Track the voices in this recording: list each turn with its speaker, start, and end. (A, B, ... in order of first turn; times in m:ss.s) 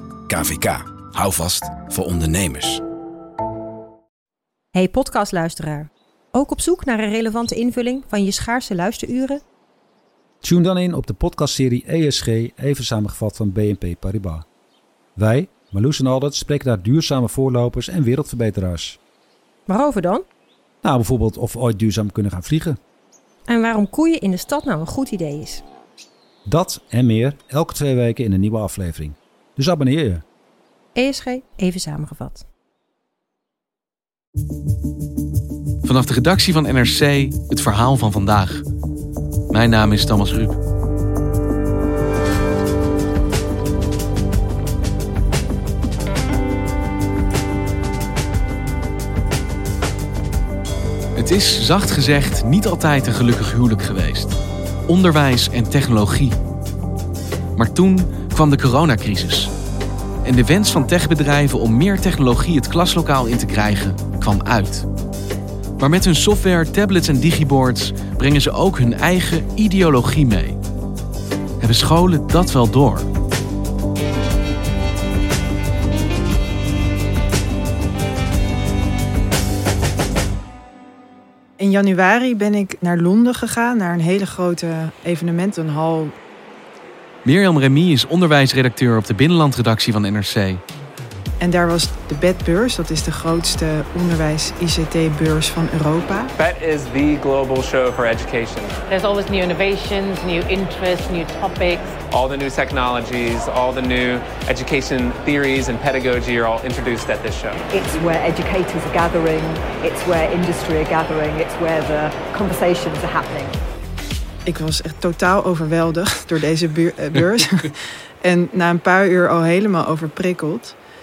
0:00.3-0:02.8 A
0:04.7-0:09.4 B
0:10.4-0:14.4 C
0:15.2-0:19.0 C
0:19.7-0:20.2 B
0:20.8-0:22.8 C
0:23.5-0:25.6 B
0:26.5-0:30.2 C
0:30.9-0:32.5 B
0:35.8-0:38.6 D
0:39.5-0:40.6 D
0:51.2-0:54.4 D
0:54.9-0:56.4 D
0:57.6-0:59.5 D
1:00.2-1:04.8 D
1:05.8-1:10.6 D
1:11.6-1:13.1 D
1:21.6-1:26.1 E
1:27.2-1:30.6 D
1:31.4-1:36.3 E
1:36.4-1:38.8 F
1:38.9-1:41.9 G
1:42.1-1:47.6 F
1:47.7-1:53.6 H
1:54.4-2:00.8 E